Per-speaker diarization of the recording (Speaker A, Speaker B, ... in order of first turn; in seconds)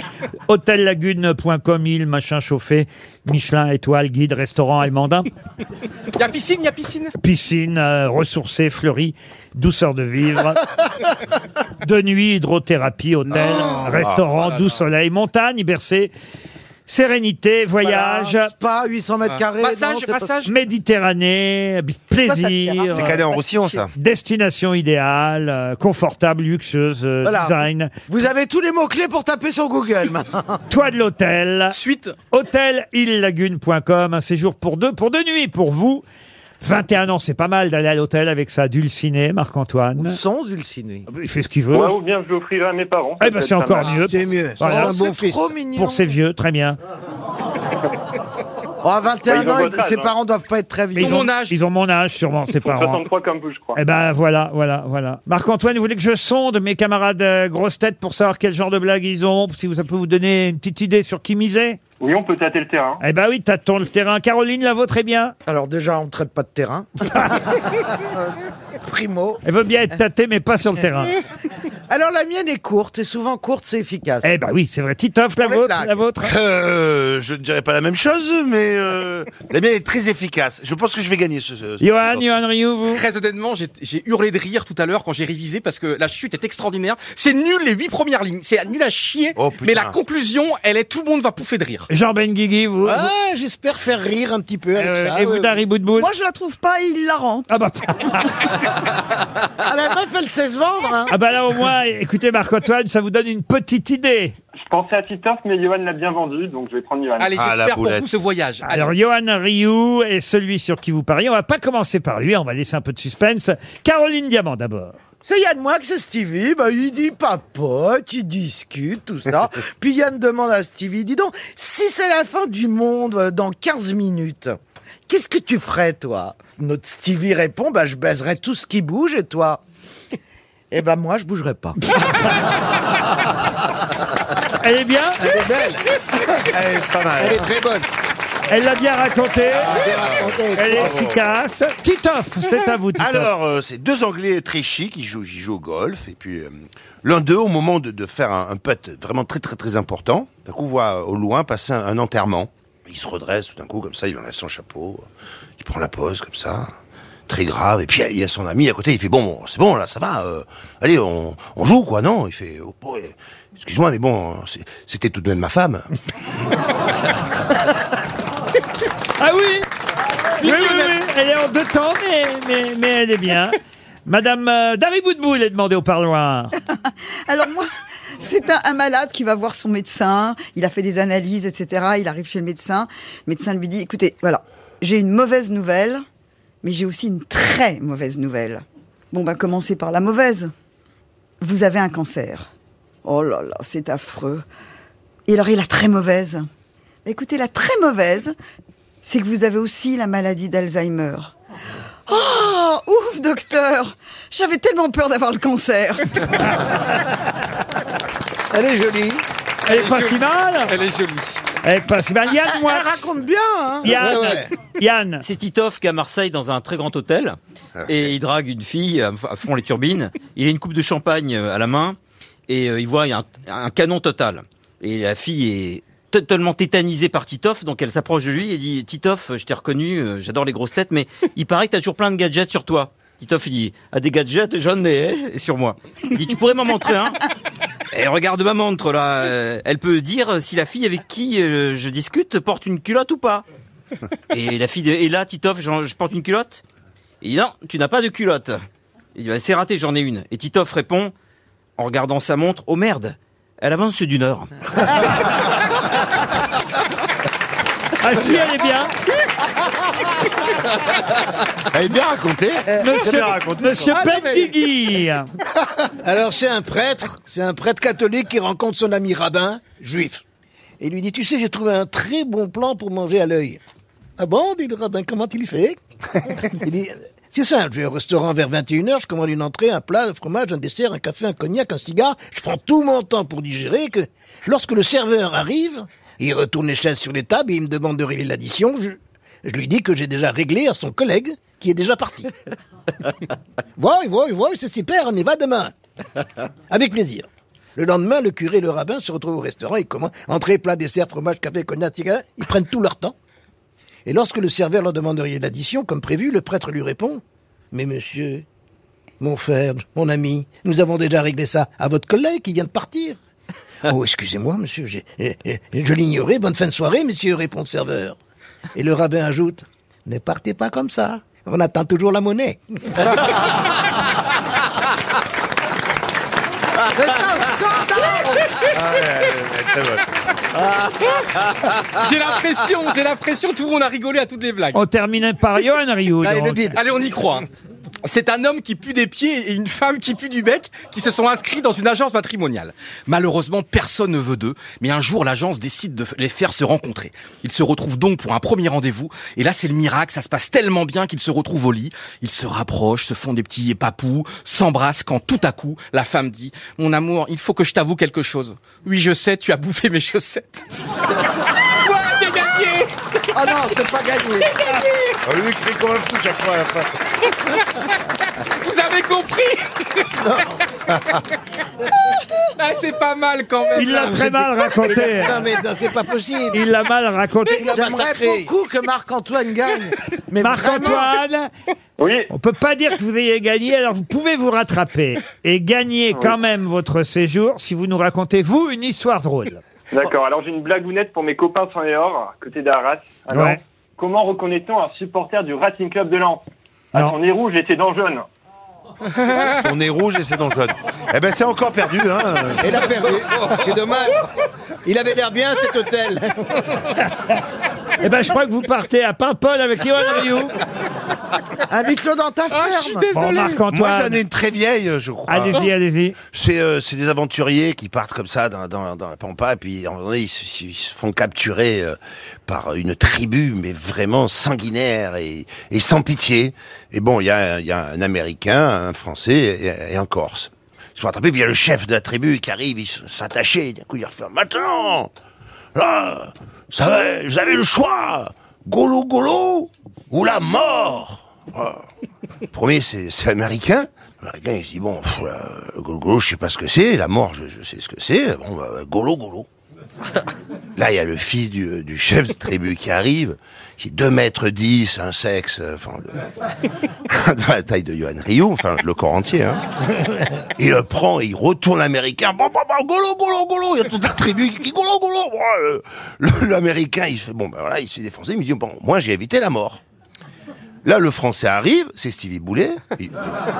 Speaker A: 0.5-5.3, 7.2-10.6, 11.8-16.1, 16.9-18.5, 20.4-23.2, 23.9-27.9, 30.7-31.8, 32.3-36.0, 36.6-40.2, 41.1-42.0, 43.2-45.0, 45.7-46.8, 50.9-53.0, 53.7-61.8, 63.0-65.3, 69.4-71.2, 74.2-76.3, 81.8-83.0, 91.9-93.1, 94.8-96.1, 97.5-98.5, 101.1-104.3, 108.7-115.0, 134.6-135.2, 138.5-139.9, 140.5-143.3, 169.2-169.7, 170.4-173.5, 174.1-176.5, 209.7-210.7, 211.6-213.0, 213.8-215.2, 258.0-258.9, 262.8-265.3, 334.7-336.7, 373.7-375.4, 376.5-377.7, 380.4-381.5, 382.3-389.6, 393.3-393.6, 408.0-410.6, 413.1-414.2, 415.3-416.1
Speaker B: 6.1-7.1, 14.4-14.8, 19.2-20.5, 31.7-32.1, 51.0-51.5, 82.9-91.9, 107.2-108.9, 209.7-211.4, 331.7-334.8, 336.7-337.4, 338.0-360.6, 361.4-363.7, 364.4-365.1, 367.6-370.4, 372.1-374.3, 412.5-413.6
Speaker C: 13.2-14.3, 22.9-23.9, 76.2-82.2, 89.3-90.0, 107.3-108.0, 136.4-137.4, 139.8-141.3, 143.0-155.1, 155.6-156.7, 157.3-165.9, 261.7-263.9, 328.6-330.1, 331.2-331.6, 365.2-367.1, 399.2-403.1, 413.7-415.7, 416.3-435.1, 435.7-441.8, 442.5-449.5, 450.8-456.2, 457.1-459.6, 460.6-469.8, 470.8-473.2
Speaker D: 17.8-20.3, 27.2-27.6, 28.1-30.6, 40.0-41.1, 44.8-46.0, 48.8-51.1, 65.5-68.3, 68.8-69.4, 71.9-74.3, 75.4-76.0, 99.7-101.1, 115.2-124.5, 125.1-129.6, 130.7-131.7, 327.0-328.1, 363.3-364.5, 377.7-381.1, 403.0-403.5, 411.7-413.1
Speaker E: 22.2-23.4, 96.0-97.5, 137.3-137.8, 177.3-186.0, 186.6-190.5, 191.4-192.5, 193.0-194.4, 195.3-196.5, 197.1-198.3, 199.0-201.3, 202.1-206.7, 208.5-209.2, 212.6-214.1, 263.9-264.4, 327.7-328.0, 336.2-336.7
Speaker F: 41.7-44.0, 49.2-50.1, 52.5-53.8, 62.0-63.0, 104.5-107.3, 382.0-382.3, 389.9-398.2
Speaker G: 44.0-45.6, 92.8-95.6, 135.2-135.8, 139.7-140.9, 213.9-214.5, 266.0-270.2, 270.8-273.6, 274.2-292.3, 293.8-295.7, 296.7-303.1, 304.1-308.4, 309.2-313.2, 313.9-318.1, 318.7-323.0, 374.0-376.6, 377.5-378.5, 402.7-404.0, 404.8-406.9
Speaker H: 215.2-217.4, 217.9-237.2, 237.9-243.4, 244.3-246.6, 247.2-248.6, 249.1-251.1, 251.8-254.5